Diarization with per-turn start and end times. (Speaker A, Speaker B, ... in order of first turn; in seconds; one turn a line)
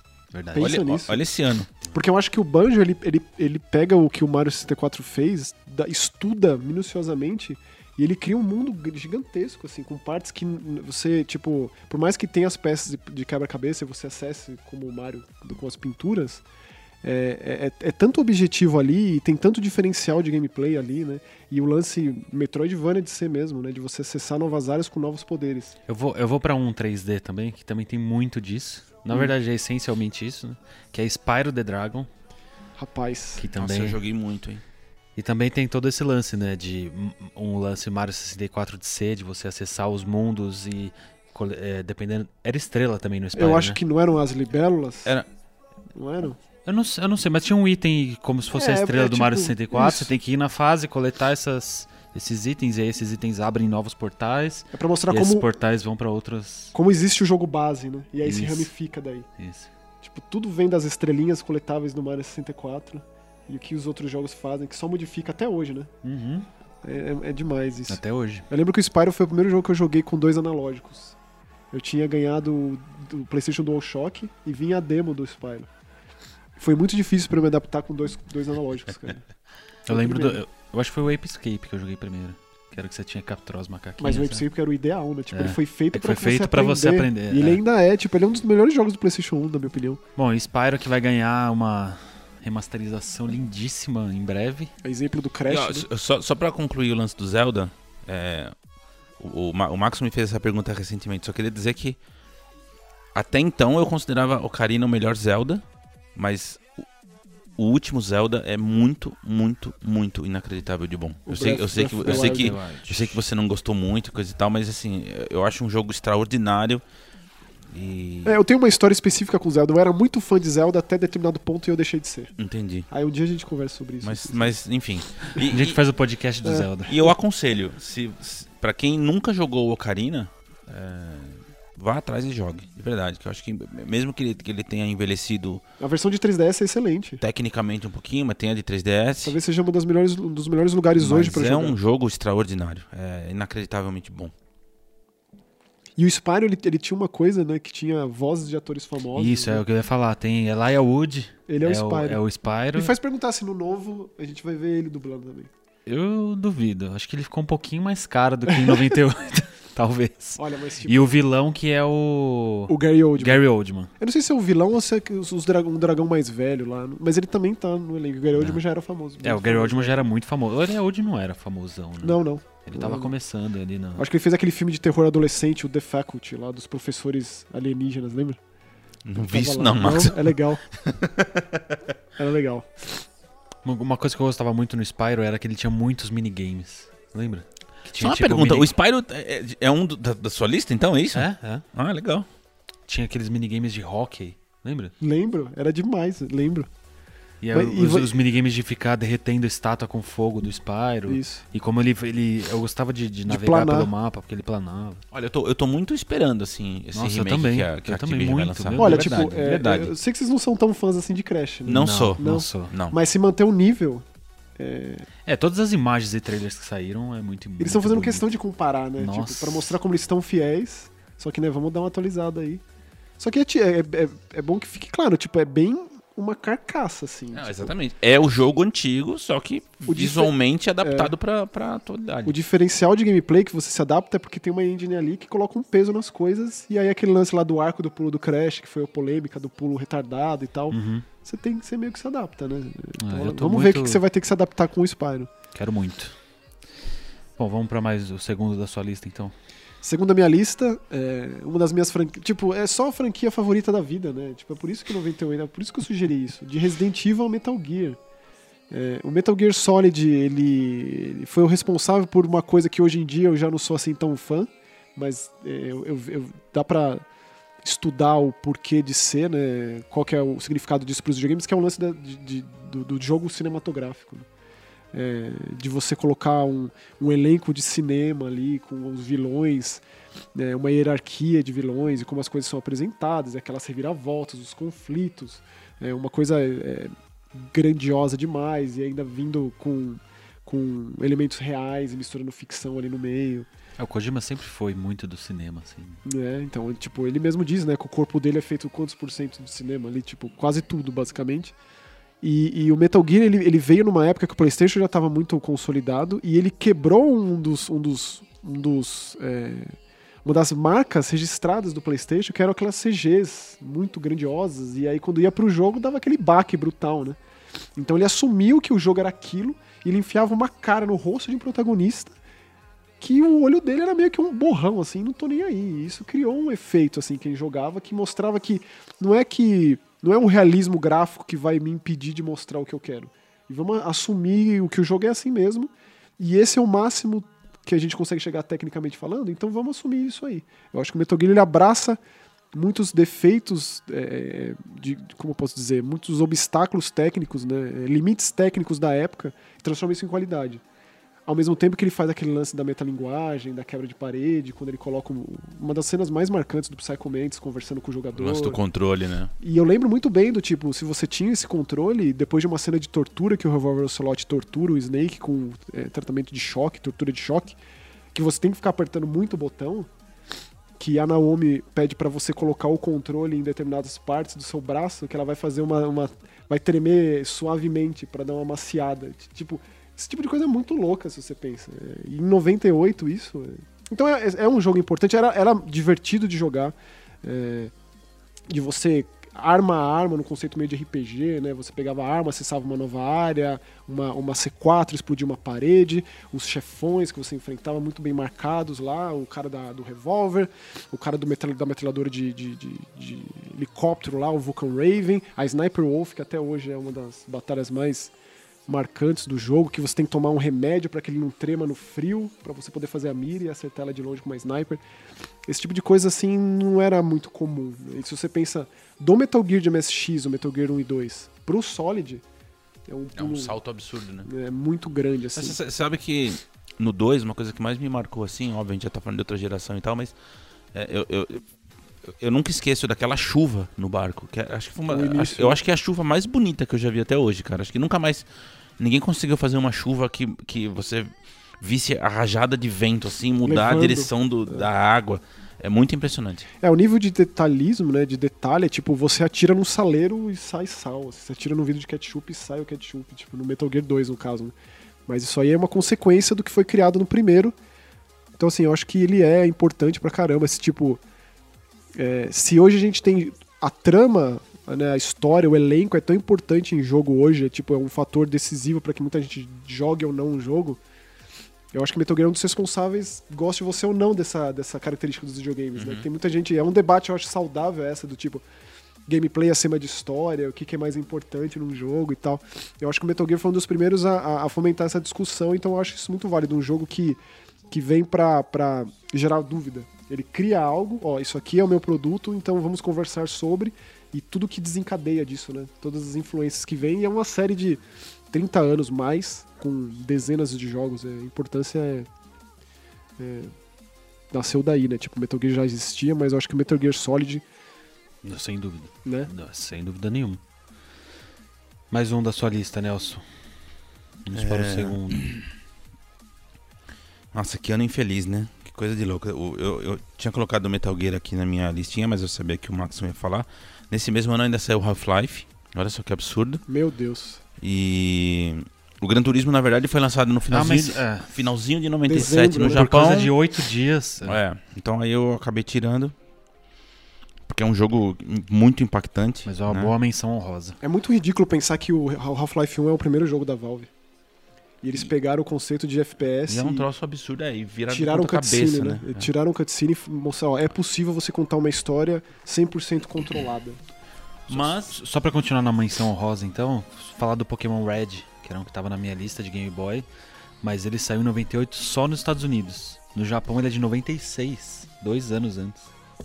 Speaker A: 0.3-0.8
Speaker B: 0.5-1.2
Speaker C: 0.6-1.7
Speaker B: 1.9-16.4
Speaker B: 17.0-25.8
Speaker A: 25.9-32.1
Speaker B: 32.8-33.5
Speaker A: 33.4-34.0
Speaker C: 33.5-34.6
Speaker A: 35.2-43.8
Speaker B: 43.4-45.2
Speaker B: 46.0-46.4
Speaker A: 46.7-56.8
Speaker B: 48.5-50.1
Speaker B: 54.7-55.5
Speaker B: 56.7-59.3
Speaker A: 58.2-58.7
Speaker A: 59.4-59.7
Speaker B: 60.0-65.9
Speaker A: 66.0-66.5
Speaker B: 66.8-71.2
Speaker A: 67.9-68.5
Speaker B: 71.7-75.7
Speaker B: 76.6-79.2
Speaker A: 79.9-84.5
Speaker B: 79.9-80.4
Speaker B: 84.0-90.0
Speaker A: 85.3-87.6
Speaker A: 90.2-94.7
Speaker B: 94.8-95.9
Speaker C: 95.5-98.5
Speaker C: 99.2-102.0
Speaker C: 103.1-105.6
Speaker C: 106.2-106.6
Speaker C: 107.6-116.8
Speaker B: 111.3-112.6
Speaker A: 112.0-113.2
Speaker C: 117.7-118.4
Speaker B: 118.2-122.3
Speaker C: 122.4-122.9
Speaker B: 122.9-124.6
Speaker C: 124.0-125.8
Speaker A: 125.3-127.1
Speaker B: 126.4-126.7
Speaker C: 126.9-135.6
Speaker B: 135.8-137.2
Speaker C: 137.2-139.4
Speaker B: 139.2-141.8
Speaker C: 141.0-144.3
Speaker B: 146.0-149.6
Speaker A: 149.2-152.9
Speaker B: 151.5-152.2
Speaker B: 152.8-155.5
Speaker A: 155.9-163.9
Speaker B: 158.5-159.0
Speaker B: 160.4-161.1
Speaker B: 162.7-163.4
Speaker B: 164.0-170.0
Speaker A: 168.3-168.6
Speaker A: 169.2-174.1
Speaker B: 172.0-173.1
Speaker B: 174.0-178.4
Speaker C: 179.1-181.8
Speaker B: 179.2-180.6
Speaker B: 182.2-183.0
Speaker A: 183.6-188.7
Speaker C: 188.0-192.3
Speaker A: 191.1-191.7
Speaker A: 192.9-194.9
Speaker B: 195.0-196.7
Speaker A: 197.4-205.0
Speaker B: 197.5-198.2
Speaker B: 201.1-201.4
Speaker B: 203.3-203.9
Speaker C: 205.1-209.9
Speaker A: 206.9-209.3
Speaker B: 208.8-214.1
Speaker C: 211.7-213.0
Speaker A: 211.7-212.7
Speaker B: 214.6-215.1
Speaker A: 215.3-218.3
Speaker B: 217.6-222.6
Speaker A: 219.0-219.8
Speaker B: 223.2-227.7
Speaker C: 227.3-232.4
Speaker B: 229.9-231.1
Speaker B: 232.2-245.3
Speaker A: 240.7-241.1
Speaker A: 243.0-244.0
Speaker A: 245.5-246.1
Speaker A: 247.4-249.3
Speaker B: 249.8-258.0
Speaker B: 258.7-267.1
Speaker B: 267.6-274.3
Speaker B: 274.9-279.8
Speaker B: 280.4-293.5
Speaker A: 293.8-296.0
Speaker B: 296.1-301.5
Speaker B: 302.2-317.2
Speaker B: 317.8-322.2
Speaker B: 323.0-342.0
Speaker B: 342.5-350.6
Speaker B: 351.3-358.6
Speaker C: 358.2-359.3
Speaker B: 359.4-367.6
Speaker B: 368.1-369.9
Speaker B: 370.8-387.7
Speaker B: 388.5-408.1
Speaker B: 408.7-414.8
Speaker B: 415.5-422.2
Speaker B: 422.9-423.6
Speaker C: 423.2-424.3
Speaker B: 424.2-425.6
Speaker C: 425.4-430.1
Speaker C: 430.7-431.4
Speaker C: 432.1-438.3
Speaker B: 434.9-435.6
Speaker C: 438.8-441.1
Speaker C: 441.6-446.5
Speaker B: 443.4-444.7
Speaker B: 446.6-454.6
Speaker B: 455.1-457.6
Speaker B: 458.4-461.0
Speaker B: 461.9-470.8
Speaker B: 471.7-478.4
Speaker C: 475.8-476.1
Speaker B: 479.1-487.2
Speaker B: 487.7-502.1
Speaker B: 503.2-503.5
Speaker B: 504.3-507.4
Speaker A: 508.2-510.4
Speaker B: 509.1-509.3
Speaker A: 511.9-513.2
Speaker A: 514.2-515.3
Speaker C: 514.3-515.3
Speaker C: 517.3-526.6
Speaker B: 526.7-527.4
Speaker C: 527.6-533.4
Speaker A: 530.5-531.3
Speaker B: 532.1-532.9
Speaker A: 532.6-534.4
Speaker C: 534.2-536.1
Speaker C: 537.5-540.0
Speaker A: 539.5-540.8
Speaker B: 540.8-543.9
Speaker B: 544.8-546.9
Speaker C: 546.5-549.3
Speaker B: 547.9-553.8
Speaker C: 554.5-555.0
Speaker A: 554.5-560.0
Speaker A: 560.6-565.9